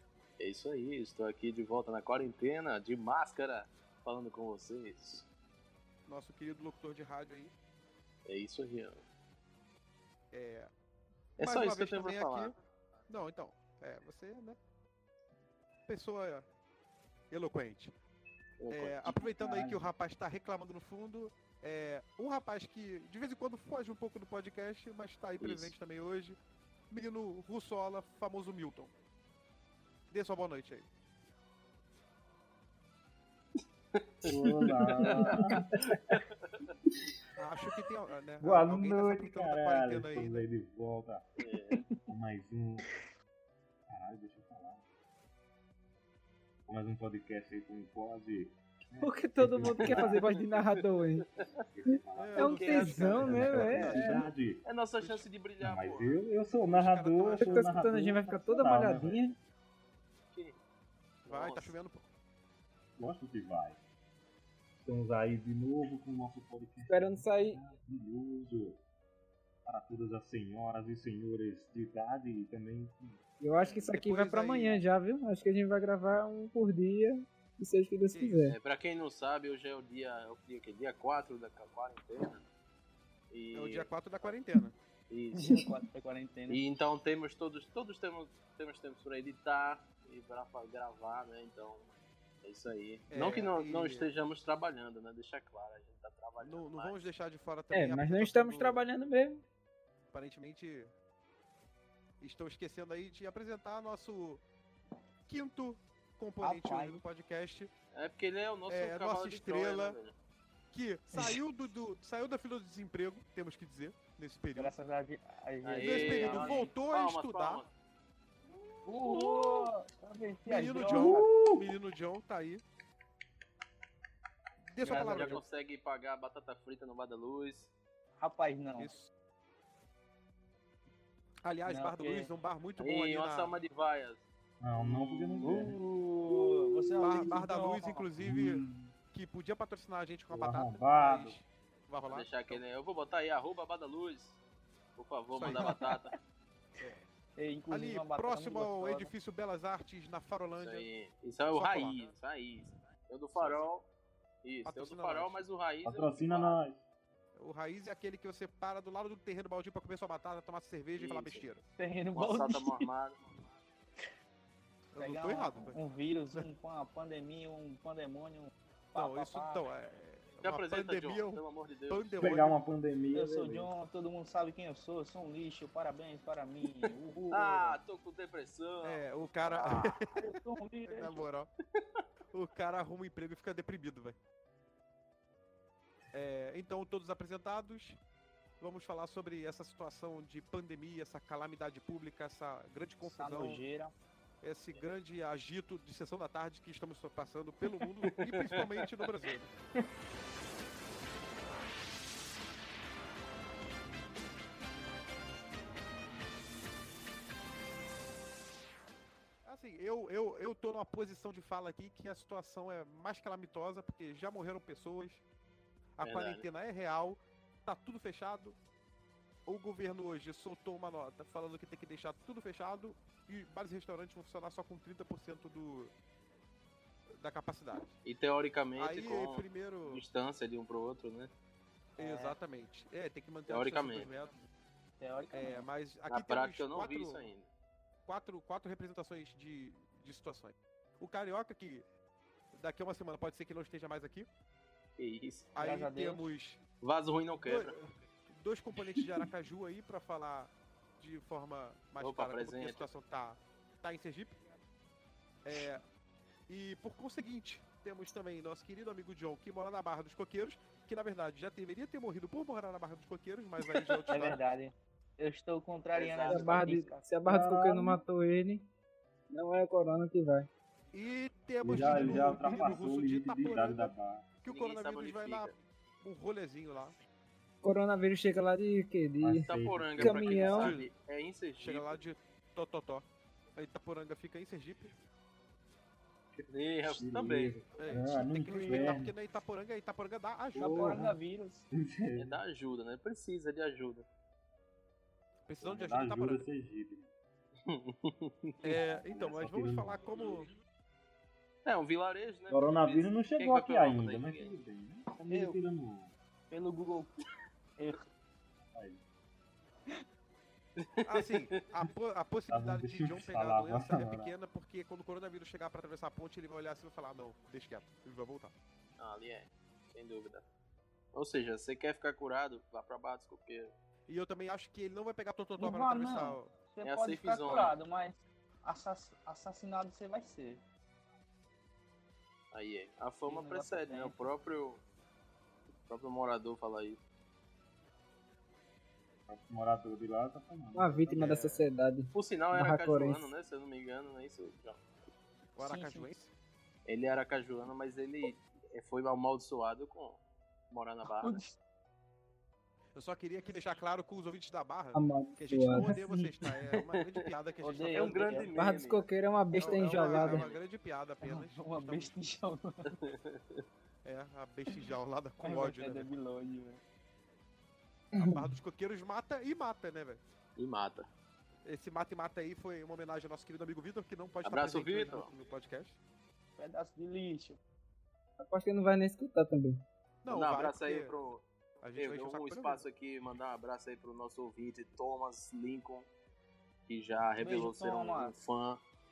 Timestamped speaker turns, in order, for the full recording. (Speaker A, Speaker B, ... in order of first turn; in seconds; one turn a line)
Speaker A: 0.4-5.3
Speaker B: 6.1-7.5
Speaker A: 8.3-9.0
Speaker B: 10.3-10.7
Speaker A: 11.4-12.5
Speaker B: 11.4-12.6
Speaker B: 13.1-14.6
Speaker B: 15.9-16.4
Speaker B: 17.3-17.9
Speaker A: 18.6-19.2
Speaker B: 18.7-26.4
Speaker C: 19.4-19.9
Speaker A: 25.4-25.8
Speaker B: 26.9-28.9
Speaker B: 30.1-30.9
Speaker A: 33.9-34.3
Speaker C: 34.2-35.7
Speaker D: 34.8-36.0
Speaker A: 35.0-35.4
Speaker A: 35.9-36.7
Speaker B: 37.4-40.5
Speaker C: 38.4-41.3
Speaker A: 41.4-41.8
Speaker E: 41.7-42.0
Speaker C: 42.1-42.9
Speaker C: 43.9-44.8
Speaker C: 46.7-50.2
Speaker D: 49.0-51.3
Speaker A: 49.8-50.7
Speaker C: 51.5-54.6
Speaker B: 52.1-54.1
Speaker D: 52.4-54.3
Speaker A: 52.4-54.1
Speaker A: 54.6-56.2
Speaker B: 55.0-55.2
Speaker C: 55.6-59.3
Speaker B: 56.7-57.8
Speaker D: 57.4-59.3
Speaker A: 61.2-61.8
Speaker B: 61.3-62.1
Speaker C: 63.0-63.8
Speaker C: 64.8-68.8
Speaker D: 66.8-67.6
Speaker C: 69.7-73.2
Speaker D: 73.4-78.6
Speaker B: 73.6-74.8
Speaker B: 78.1-78.5
Speaker A: 78.5-82.4
Speaker A: 83.3-84.4
Speaker B: 83.5-84.8
Speaker A: 85.1-85.5
Speaker E: 85.4-86.6
Speaker A: 86.5-91.9
Speaker A: 92.4-97.1
Speaker B: 93.1-94.1
Speaker B: 96.4-98.8
Speaker D: 97.7-99.4
Speaker B: 100.1-100.9
Speaker B: 102.2-104.4
Speaker B: 105.2-107.7
Speaker E: 106.4-107.0
Speaker A: 107.9-110.1
Speaker B: 108.7-110.0
Speaker B: 110.7-114.7
Speaker E: 114.6-116.7
Speaker A: 115.6-117.7
Speaker B: 115.8-117.6
Speaker E: 118.9-121.3
Speaker A: 119.1-119.4
Speaker B: 120.5-122.6
Speaker C: 120.9-121.7
Speaker B: 124.7-125.4
Speaker E: 124.8-125.4
Speaker A: 124.9-127.7
Speaker E: 128.2-128.9
Speaker B: 128.8-129.1
Speaker B: 131.4-133.6
Speaker E: 131.7-132.3
Speaker A: 132.8-134.2
Speaker C: 134.6-135.7
Speaker A: 134.8-135.8
Speaker E: 135.4-138.1
Speaker A: 136.3-137.2
Speaker B: 137.0-142.6
Speaker C: 138.2-138.9
Speaker C: 140.3-141.4
Speaker A: 142.1-144.4
Speaker A: 145.0-146.1
Speaker B: 145.3-145.7
Speaker E: 145.5-145.9
Speaker E: 147.4-149.1
Speaker B: 147.7-150.9
Speaker A: 150.6-153.9
Speaker B: 151.5-152.1
Speaker B: 153.4-153.7
Speaker A: 154.4-156.6
Speaker B: 154.6-155.4
Speaker C: 155.8-156.8
Speaker B: 157.4-161.6
Speaker A: 161.0-161.4
Speaker E: 161.8-162.9
Speaker A: 162.1-163.2
Speaker B: 164.9-165.8
Speaker E: 165.0-169.7
Speaker B: 168.9-172.6
Speaker A: 170.4-172.3
Speaker C: 172.2-173.7
Speaker E: 173.1-177.8
Speaker A: 176.8-179.0
Speaker B: 178.8-181.5
Speaker E: 179.4-181.2
Speaker B: 182.3-184.2
Speaker B: 186.1-188.0
Speaker B: 188.6-193.6
Speaker E: 193.0-193.9
Speaker B: 194.4-199.5
Speaker A: 198.0-198.9
Speaker B: 209.4-215.2
Speaker B: 216.0-218.6
Speaker A: 216.0-216.4
Speaker B: 219.5-225.9
Speaker B: 227.2-227.9
Speaker A: 228.1-231.3
Speaker B: 228.8-230.0
Speaker B: 232.0-234.4
Speaker E: 232.0-232.4
Speaker A: 233.5-234.1
Speaker E: 235.0-235.7
Speaker B: 235.3-237.3
Speaker A: 236.1-237.4
Speaker B: 238.1-241.8
Speaker B: 242.5-244.3
Speaker A: 245.0-245.5
Speaker B: 245.6-246.6
Speaker E: 245.6-246.2
Speaker A: 246.8-247.7
Speaker B: 247.4-254.4
Speaker A: 252.0-252.9
Speaker B: 255.4-255.8
Speaker B: 256.5-264.4
Speaker E: 264.1-267.1
Speaker A: 265.9-266.9
Speaker D: 266.2-268.7
Speaker C: 267.2-268.0
Speaker D: 269.3-270.5
Speaker B: 270.9-273.9
Speaker C: 271.6-274.2
Speaker E: 271.8-272.7
Speaker B: 274.4-276.9
Speaker A: 274.5-275.6
Speaker D: 277.6-279.5
Speaker C: 279.2-280.4
Speaker A: 279.4-282.0
Speaker D: 280.0-280.8
Speaker B: 280.3-280.9
Speaker B: 281.6-284.9
Speaker C: 286.4-289.1
Speaker A: 286.5-287.6
Speaker B: 287.8-291.0
Speaker E: 288.4-289.0
Speaker C: 290.5-291.1
Speaker E: 290.6-291.6
Speaker C: 291.7-292.4
Speaker A: 292.2-294.1
Speaker B: 295.4-296.4
Speaker C: 295.6-297.1
Speaker A: 297.6-298.8
Speaker B: 298.6-300.5
Speaker C: 298.8-300.3
Speaker A: 301.6-304.6
Speaker C: 302.5-306.1
Speaker E: 305.3-305.6
Speaker E: 306.5-307.1
Speaker E: 307.8-308.0
Speaker C: 308.7-309.0
Speaker A: 310.8-311.6
Speaker B: 311.0-318.5
Speaker C: 312.5-314.3
Speaker A: 319.0-320.4
Speaker A: 321.1-323.7
Speaker B: 324.1-326.5
Speaker E: 325.6-330.6
Speaker A: 326.8-327.7
Speaker A: 332.5-334.8
Speaker E: 333.2-334.3
Speaker A: 335.9-337.0
Speaker C: 339.3-341.3
Speaker D: 340.8-343.3
Speaker B: 341.1-341.6
Speaker A: 342.1-344.8
Speaker B: 345.6-346.3
Speaker E: 345.6-346.1
Speaker A: 346.9-351.4
Speaker E: 351.1-351.6
Speaker B: 352.9-358.5
Speaker D: 354.9-356.6
Speaker A: 356.7-357.3
Speaker E: 357.6-358.5
Speaker A: 357.9-359.1
Speaker D: 358.6-360.4
Speaker B: 359.5-362.1
Speaker A: 359.9-360.6
Speaker E: 361.2-363.0
Speaker A: 362.9-363.4
Speaker B: 364.0-366.1
Speaker E: 365.4-366.8
Speaker D: 368.2-368.6
Speaker B: 368.2-370.2
Speaker A: 370.6-371.1
Speaker B: 371.6-375.9
Speaker A: 374.4-375.3
Speaker E: 376.6-377.6
Speaker D: 378.4-379.8
Speaker B: 380.2-381.1
Speaker A: 380.3-381.4
Speaker B: 381.8-382.8
Speaker A: 382.0-386.1
Speaker A: 386.9-388.8
Speaker E: 387.4-388.4